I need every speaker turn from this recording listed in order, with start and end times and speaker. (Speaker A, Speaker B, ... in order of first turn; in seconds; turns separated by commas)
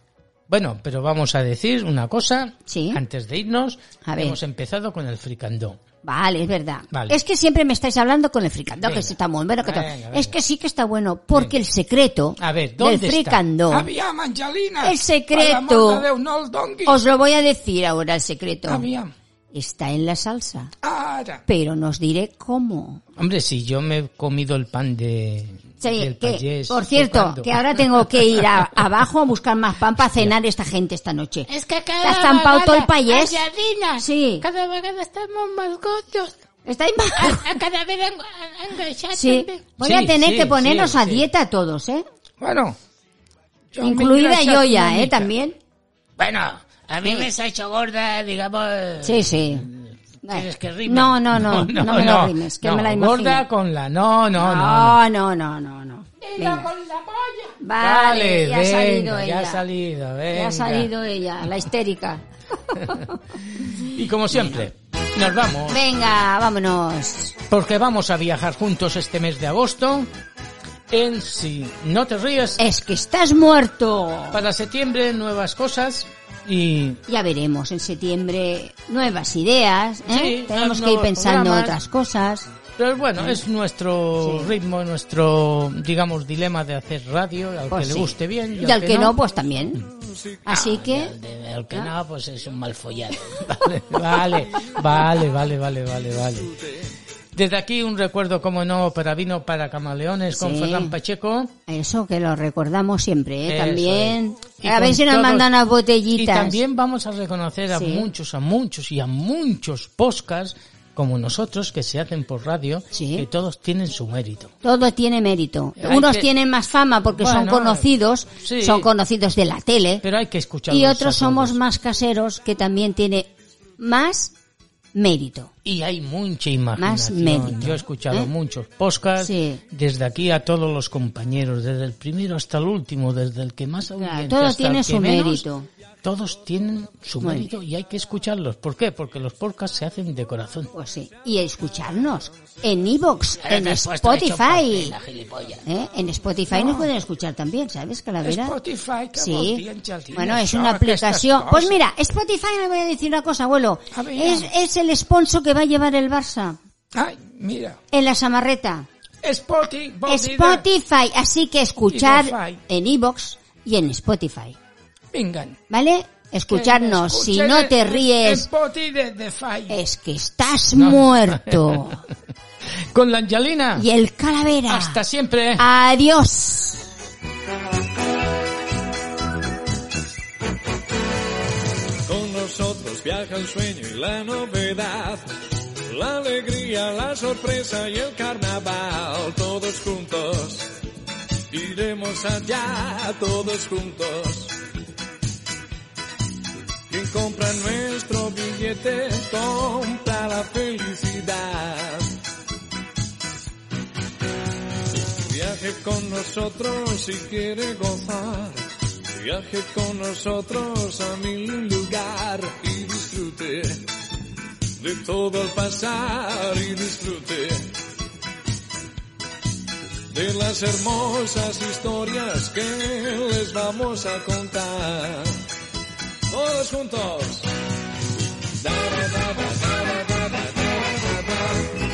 Speaker A: 0.5-5.8, Speaker B: 2.7-3.0, Speaker B: 4.0-4.4, Speaker B: 6.0-13.9, Speaker A: 8.8-10.4, Speaker A: 12.4-13.4, Speaker C: 13.7-17.0, Speaker B: 14.8-16.1, Speaker B: 16.9-18.9, Speaker C: 18.7-19.1, Speaker B: 19.5-20.7, Speaker C: 20.8-21.4, Speaker B: 21.5-23.0, Speaker A: 23.2-28.5, Speaker B: 25.8-31.5, Speaker D: 31.5-36.4, Speaker B: 32.0-33.4, Speaker B: 34.0-34.5, Speaker B: 36.7-37.5, Speaker D: 37.2-39.6, Speaker B: 39.1-42.1, Speaker A: 39.8-41.3, Speaker C: 42.4-42.8, Speaker C: 43.7-45.1, Speaker B: 43.8-45.6, Speaker A: 44.1-45.3, Speaker A: 46.2-55.0, Speaker B: 47.0-47.3, Speaker B: 49.0-49.7, Speaker B: 50.2-53.5, Speaker B: 54.4-56.7, Speaker D: 56.8-57.4, Speaker B: 57.6-59.6, Speaker A: 57.8-60.9, Speaker B: 60.3-64.7, Speaker A: 62.8-63.1, Speaker A: 63.6-65.8, Speaker B: 65.7-67.4, Speaker A: 67.5-70.1, Speaker A: 70.9-72.6, Speaker B: 72.6-74.4, Speaker A: 74.3-77.0, Speaker B: 77.1-82.5, Speaker A: 80.1-81.8, Speaker A: 82.8-89.2, Speaker B: 84.2-84.5, Speaker B: 87.7-89.8, Speaker E: 89.8-90.4, Speaker B: 90.5-91.2, Speaker A: 90.5-96.5, Speaker A: 97.3-101.5, Speaker B: 100.3-101.0, Speaker B: 101.7-106.6, Speaker A: 103.5-105.5, Speaker A: 106.1-114.5, Speaker B: 107.7-108.1, Speaker B: 112.9-113.3, Speaker B: 114.6-120.0, Speaker A: 115.8-116.3, Speaker A: 117.2-118.9, Speaker A: 120.0-121.6, Speaker B: 120.7-124.3, Speaker B: 125.0-125.5, Speaker A: 125.6-135.5, Speaker B: 126.8-128.3, Speaker B: 129.2-129.6, Speaker B: 134.0-135.7, Speaker A: 136.0-140.7, Speaker B: 137.2-137.5, Speaker B: 140.7-145.0, Speaker A: 143.4-145.7, Speaker B: 145.7-148.6, Speaker C: 146.5-146.9, Speaker C: 148.2-151.8, Speaker B: 149.2-156.6, Speaker C: 153.9-154.5, Speaker C: 156.9-157.8, Speaker B: 157.9-158.9, Speaker C: 159.2-160.7, Speaker B: 160.1-164.6, Speaker C: 161.9-162.6, Speaker C: 165.1-165.6, Speaker B: 165.7-168.5, Speaker C: 166.5-169.8, Speaker B: 169.7-172.0, Speaker A: 170.7-172.0, Speaker A: 172.9-173.9, Speaker B: 173.8-175.0, Speaker A: 174.7-175.6, Speaker B: 175.6-176.9, Speaker E: 182.1-185.3, Speaker E: 185.9-190.7, Speaker E: 191.5-194.6, Speaker E: 196.9-202.1, Speaker E: 205.3-213.8, Speaker E: 214.8-217.7, Speaker E: 220.1-225.4, Speaker E: 226.3-227.5, Speaker E: 228.6-231.7